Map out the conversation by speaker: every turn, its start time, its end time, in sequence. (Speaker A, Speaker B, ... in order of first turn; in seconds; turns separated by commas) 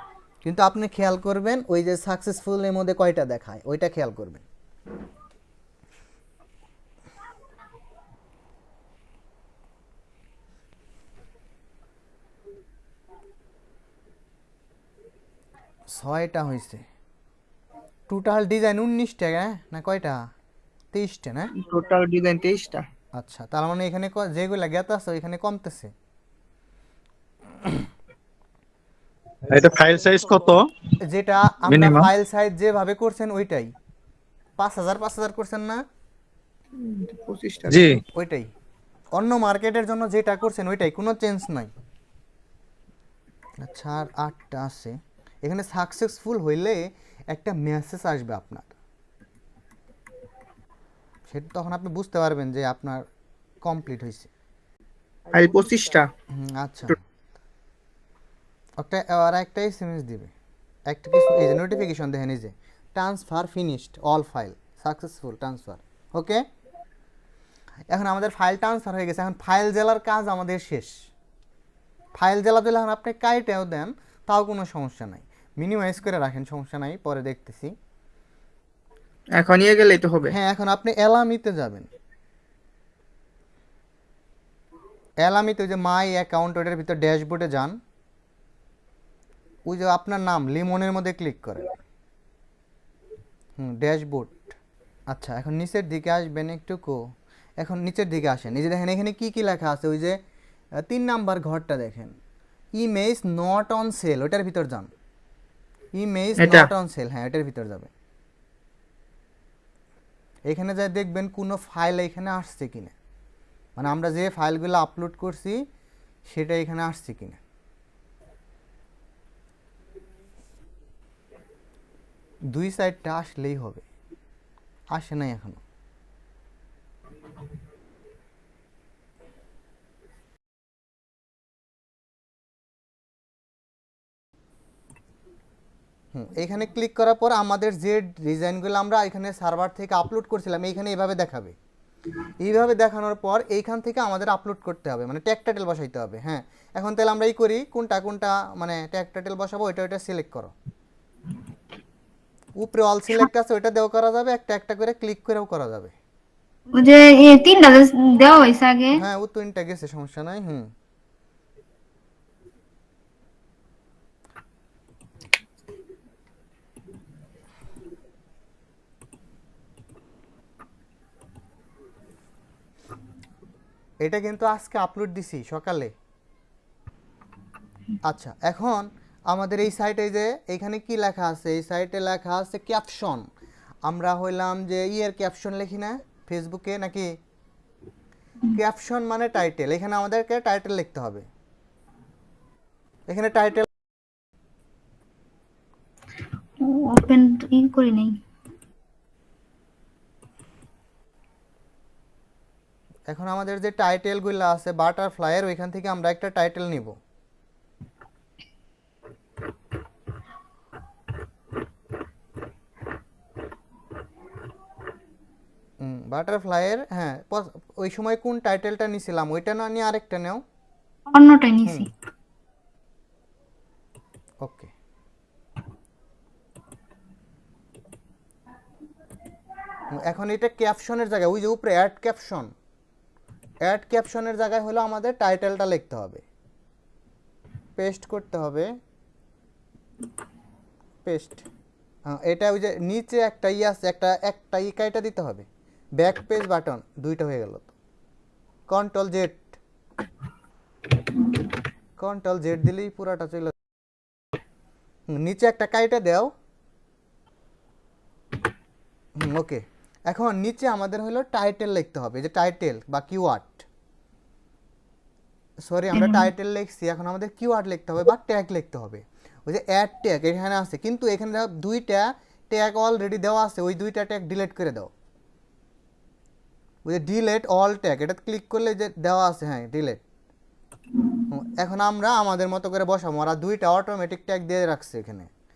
Speaker A: 0.4-4.4, Speaker A: 15.9-16.8, Speaker A: 18.1-20.2, Speaker A: 20.9-21.5, Speaker B: 21.5-22.9, Speaker A: 23.1-25.9, Speaker C: 29.5-30.7, Speaker A: 31.0-33.7, Speaker C: 31.6-32.1, Speaker A: 34.6-35.8, Speaker B: 36.8-38.0, Speaker C: 37.7-38.0, Speaker A: 38.1-38.5, Speaker A: 39.1-41.7, Speaker A: 43.6-48.8, Speaker A: 51.3-53.0, Speaker A: 53.6-54.3, Speaker B: 55.3-56.1, Speaker A: 56.3-57.0, Speaker A: 58.8-60.3, Speaker A: 60.9-66.4, Speaker A: 67.9-71.1, Speaker A: 72.2-77.7, Speaker B: 79.3-80.3, Speaker A: 80.3-81.9, Speaker A: 85.2-87.8, Speaker A: 89.7-91.7, Speaker A: 93.6-94.5, Speaker A: 95.1-97.0, Speaker A: 97.6-100.2, Speaker A: 100.8-102.1, Speaker A: 102.8-104.9, Speaker A: 106.0-107.9, Speaker B: 106.4-106.7, Speaker A: 110.5-112.9, Speaker A: 113.8-115.6, Speaker A: 116.2-117.4, Speaker A: 122.5-123.8, Speaker A: 124.9-125.6, Speaker A: 136.1-141.6, Speaker A: 142.4-150.5, Speaker A: 152.6-155.9, Speaker D: 156.8-159.0, Speaker A: 158.9-160.7, Speaker A: 174.0-175.9, Speaker A: 178.0-183.2, Speaker A: 183.9-187.1, Speaker A: 188.5-191.2, Speaker A: 193.1-193.7, Speaker D: 196.6-198.2, Speaker A: 203.1-207.0, Speaker A: 215.8-220.4, Speaker D: 221.1-221.9, Speaker A: 224.4-224.7, Speaker A: 229.9-232.5, Speaker A: 233.6-236.2, Speaker A: 237.8-238.7, Speaker A: 241.0-241.4, Speaker A: 242.1-245.5, Speaker A: 246.0-247.8, Speaker A: 248.7-249.6, Speaker A: 252.0-253.5, Speaker A: 255.1-256.3, Speaker A: 259.2-263.7, Speaker A: 265.6-274.9, Speaker D: 265.9-266.2, Speaker A: 276.9-280.0, Speaker A: 281.3-285.3